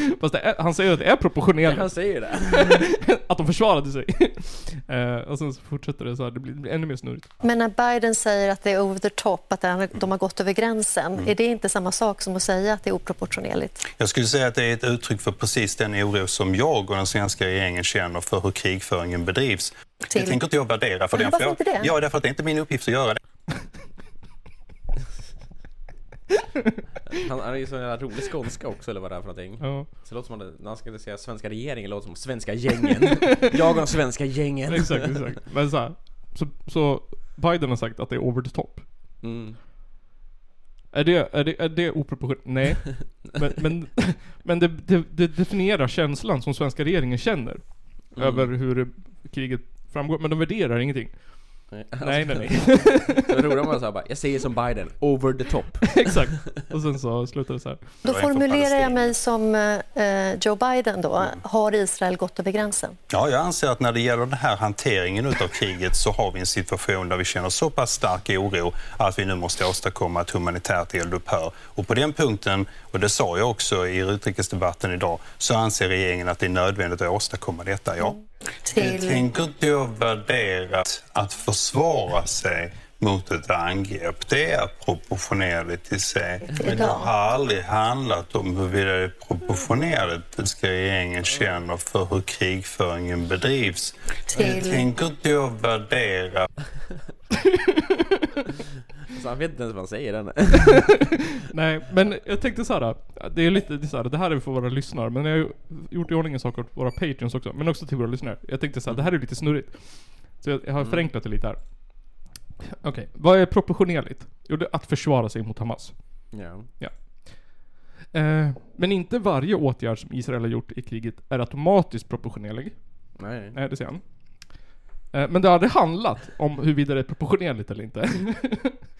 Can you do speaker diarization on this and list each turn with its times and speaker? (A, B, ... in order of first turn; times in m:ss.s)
0:00.2-0:07.3 A
0:01.6-0:02.9 B
0:07.4-0:13.9 C
0:13.9-0:23.2 D
0:20.1-0:20.4 C
0:21.1-0:21.9 C
0:27.1-0:35.4 B
0:29.6-0:29.9 A
0:34.7-0:38.8 A
0:39.2-0:39.6 B
0:40.9-0:53.2 A
0:48.2-0:48.5 B
0:51.7-0:56.2 B
0:55.9-0:58.0 A
0:58.0-1:03.0 C
0:58.0-0:59.1 D
1:03.1-1:18.2 D
1:18.6-1:19.2 C
1:18.7-1:36.5 D
1:26.6-1:27.1 C
1:34.3-1:34.9 C
1:39.1-1:41.0 B
1:40.5-1:51.6 A
1:50.8-1:51.1 B
1:52.8-1:55.9 A
1:56.3-1:56.7 B
1:56.8-1:57.6 A
1:58.1-2:02.8 A
2:03.2-2:03.6 B
2:03.5-2:04.0 A
2:05.1-2:08.8 A